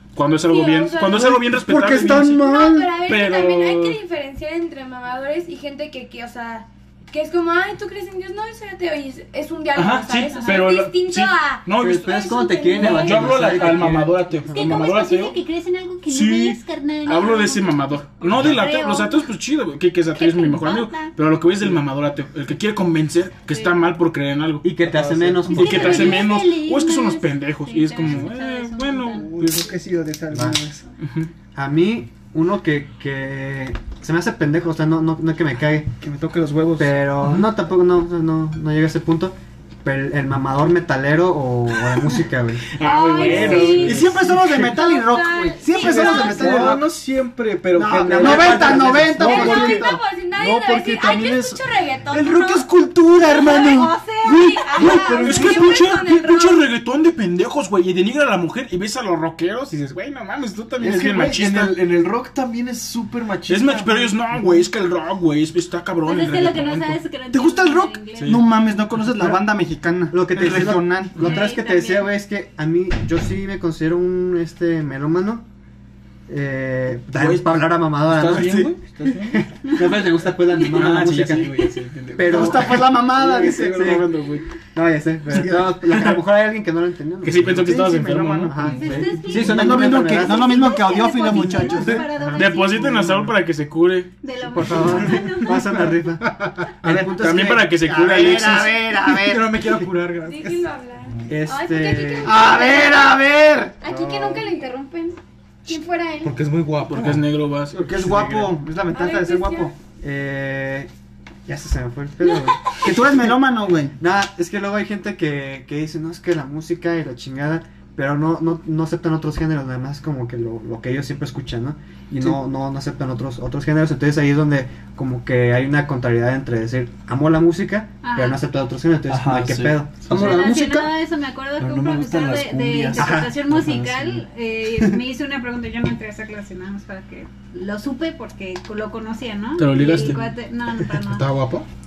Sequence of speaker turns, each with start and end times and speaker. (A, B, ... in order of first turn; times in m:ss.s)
0:00.1-0:02.5 A
0:00.4-0:01.4 B
0:01.1-0:02.9 C
0:02.2-0:13.7 B
0:03.0-0:04.0 A
0:09.7-0:15.4 A
0:10.2-0:10.7 D
0:11.8-0:14.6 E
0:14.5-0:19.3 D
0:16.1-0:24.7 A
0:20.1-0:21.1 D
0:23.5-0:23.8 D
0:24.6-0:26.2 E
0:24.8-0:25.7 F
0:25.5-0:29.5 D
0:25.5-0:29.6 A
0:29.2-0:30.8 C
0:30.3-0:30.6 E
0:31.0-0:31.3 A
0:31.5-0:35.9 E
0:36.0-0:37.1 C
0:36.8-0:42.7 E
0:42.7-0:44.3 A
0:42.8-0:43.9 B
0:42.8-0:43.8 D
0:43.2-0:44.5 F
0:43.8-0:46.9 C
0:44.6-0:46.7 B
0:45.8-0:51.6 F
0:47.7-0:50.0 C
0:49.1-0:52.7 B
0:52.1-0:55.1 C
0:53.2-0:55.4 D
0:54.2-0:56.6 B
0:55.0-1:01.8 A
0:55.1-0:55.5 F
1:00.8-1:04.2 F
1:03.5-1:07.0 A
1:06.0-1:08.4 D
1:07.3-1:11.3 C
1:08.2-1:08.4 A
1:10.1-1:15.4 E
1:11.2-1:12.0 B
1:16.3-1:23.0 E
1:17.1-1:19.4 A
1:20.6-1:24.4 A
1:22.3-1:24.0 C
1:23.6-1:24.1 E
1:24.7-1:27.9 E
1:25.9-1:26.2 A
1:27.2-1:29.2 A
1:27.5-1:32.1 C
1:28.5-1:30.7 E
1:28.7-1:32.9 D
1:31.7-1:33.3 E
1:32.3-1:34.1 A
1:34.2-1:35.8 D
1:34.5-1:36.3 E
1:35.0-1:35.9 C
1:36.8-1:37.7 E
1:36.8-1:39.7 C
1:36.8-1:37.1 G
1:37.0-1:38.8 A
1:39.1-1:40.6 G
1:40.2-1:43.2 B
1:41.3-1:42.5 E
1:42.2-1:43.7 C
1:43.8-1:46.4 B
1:43.8-1:44.5 E
1:46.2-1:47.2 G
1:46.8-1:48.3 A
1:47.7-1:49.7 C
1:48.9-1:49.7 B
1:50.0-1:50.9 E
1:51.5-1:53.3 E
1:52.8-1:53.9 C
1:54.0-2:10.2 E
2:08.0-2:08.4 D
2:09.1-2:10.4 F
2:10.1-2:10.9 C
2:10.1-2:21.3 D
2:11.6-2:14.2 F
2:13.0-2:13.4 E
2:19.6-2:20.3 F
2:19.8-2:20.1 A
2:21.0-2:21.6 G